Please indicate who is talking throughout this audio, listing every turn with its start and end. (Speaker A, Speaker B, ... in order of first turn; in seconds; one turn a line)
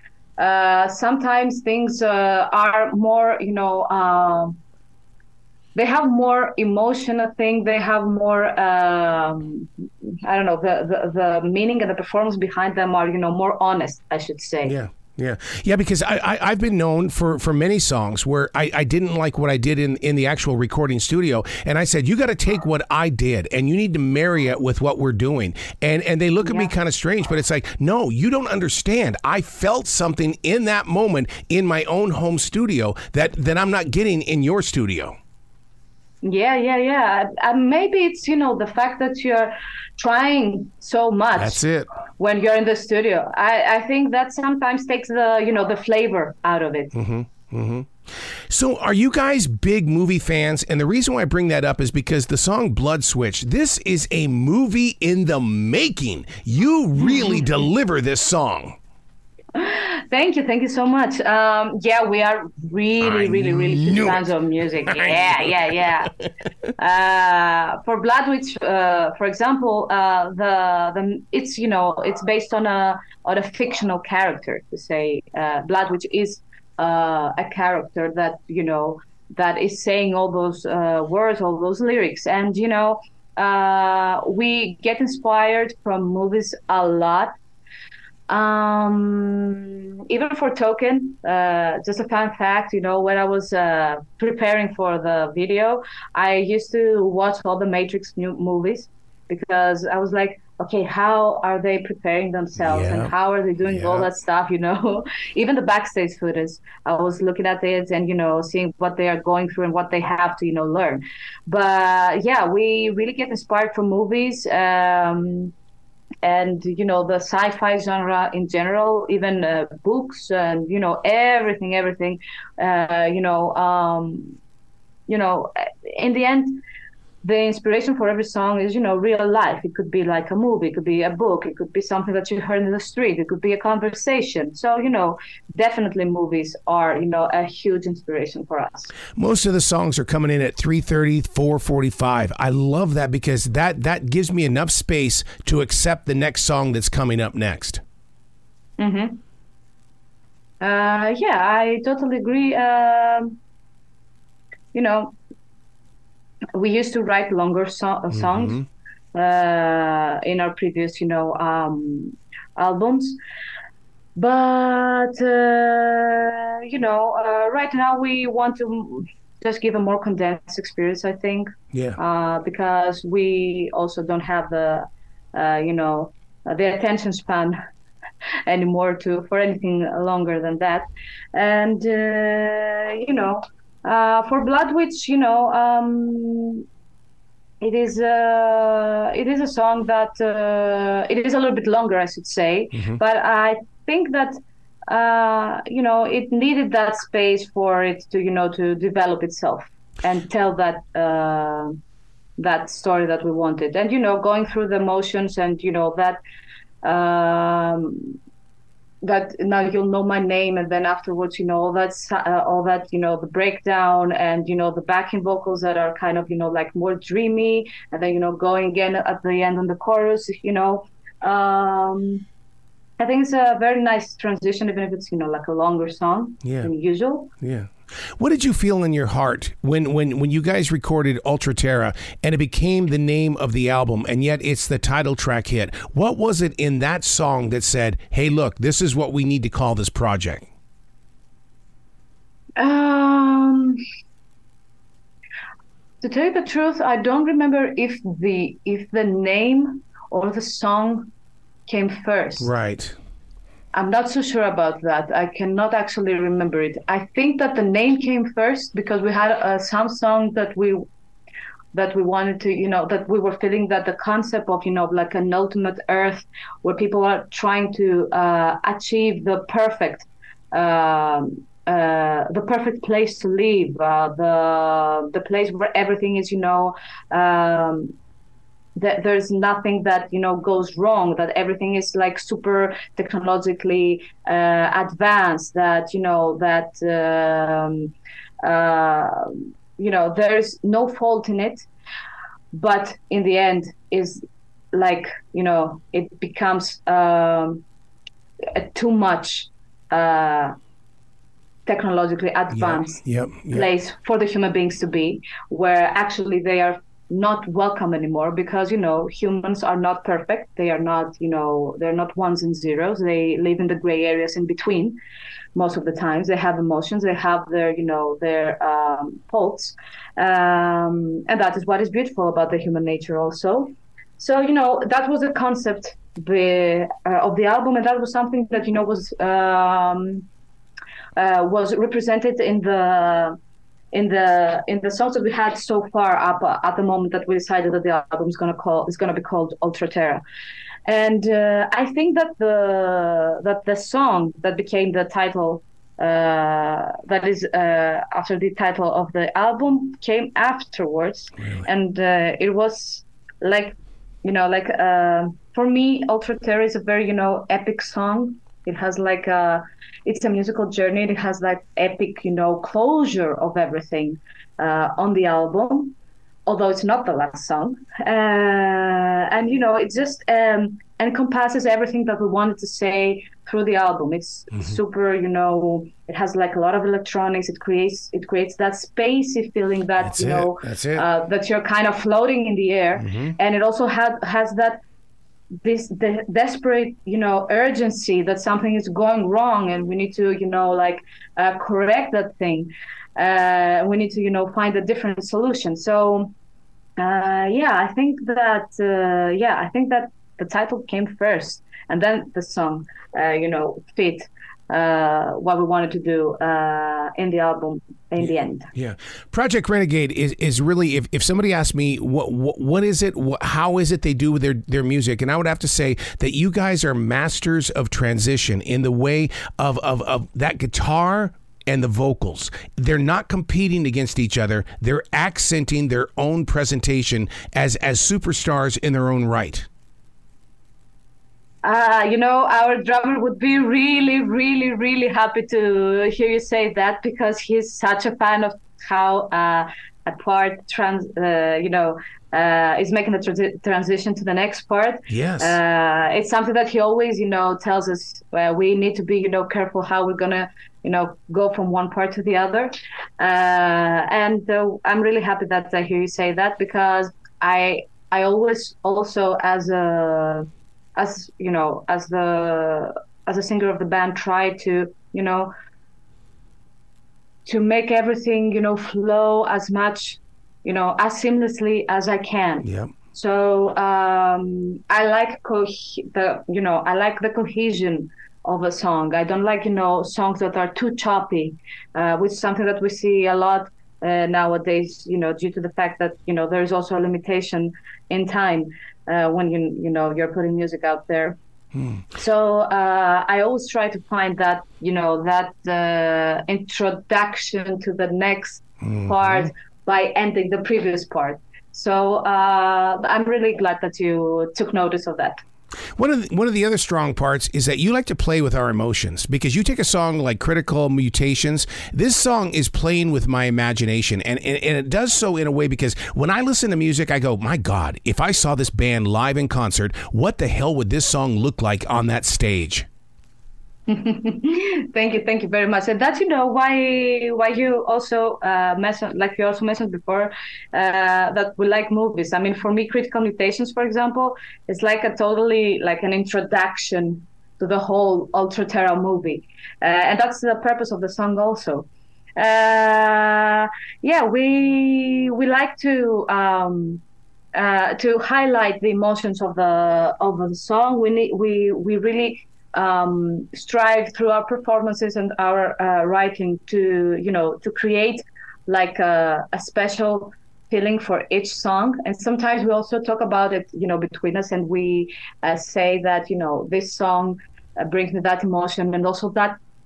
Speaker A: 0.4-4.6
Speaker A: 5.7-14.7
Speaker B: 14.6-35.1
Speaker A: 26.4-26.7
Speaker A: 36.2-41.6
Speaker B: 41.4-41.9
Speaker A: 42.2-46.9
Speaker B: 46.9-47.9
Speaker B: 48.5-58.8
Speaker A: 57.0-57.5
Speaker A: 59.5-66.1
Speaker B: 63.0-65.8
Speaker A: 66.8-87.3
Speaker A: 88.3-115.5
Speaker B: 102.6-103.1
Speaker B: 103.6-104.1
Speaker A: 116.2-124.3
Speaker A: 125.1-126.6
Speaker A: 127.2-138.9
Speaker B: 139.2-147.8
Speaker A: 148.8-149.2
Speaker A: 150.6-153.4
Speaker A: 154.7-155.1
Speaker A: 156.5-158.6
Speaker B: 158.1-158.7
Speaker A: 159.1-163.2
Speaker A: 164.2-177.6
Speaker B: 171.7-172.0
Speaker A: 178.4-186.6
Speaker A: 187.6-201.8
Speaker A: 202.4-206.2
Speaker A: 206.8-208.2
Speaker A: 209.0-222.2
Speaker A: 223.0-227.3
Speaker B: 226.4-226.7
Speaker B: 227.4-240.5
Speaker A: 242.6-243.8
Speaker A: 246.0-251.1
Speaker A: 251.7-252.5
Speaker B: 252.4-252.9
Speaker A: 253.7-260.8
Speaker A: 261.7-277.9
Speaker A: 278.8-291.7
Speaker A: 292.5-297.6
Speaker A: 298.4-300.5
Speaker A: 301.6-315.0
Speaker B: 302.5-303.6
Speaker A: 315.5-330.2
Speaker A: 331.1-333.4
Speaker A: 333.9-340.2
Speaker A: 340.9-365.9
Speaker B: 351.4-351.6
Speaker A: 366.4-384.8
Speaker B: 380.0-381.0
Speaker B: 383.0-383.3
Speaker A: 385.6-396.3
Speaker A: 397.0-408.7
Speaker B: 408.7-429.7
Speaker A: 431.6-465.5
Speaker B: 445.1-445.6
Speaker A: 467.4-491.4
Speaker B: 472.6-472.9
Speaker B: 491.8-492.0
Speaker A: 492.1-505.4
Speaker B: 498.8-499.5
Speaker B: 505.9-522.9
Speaker A: 523.9-547.0
Speaker A: 547.5-569.6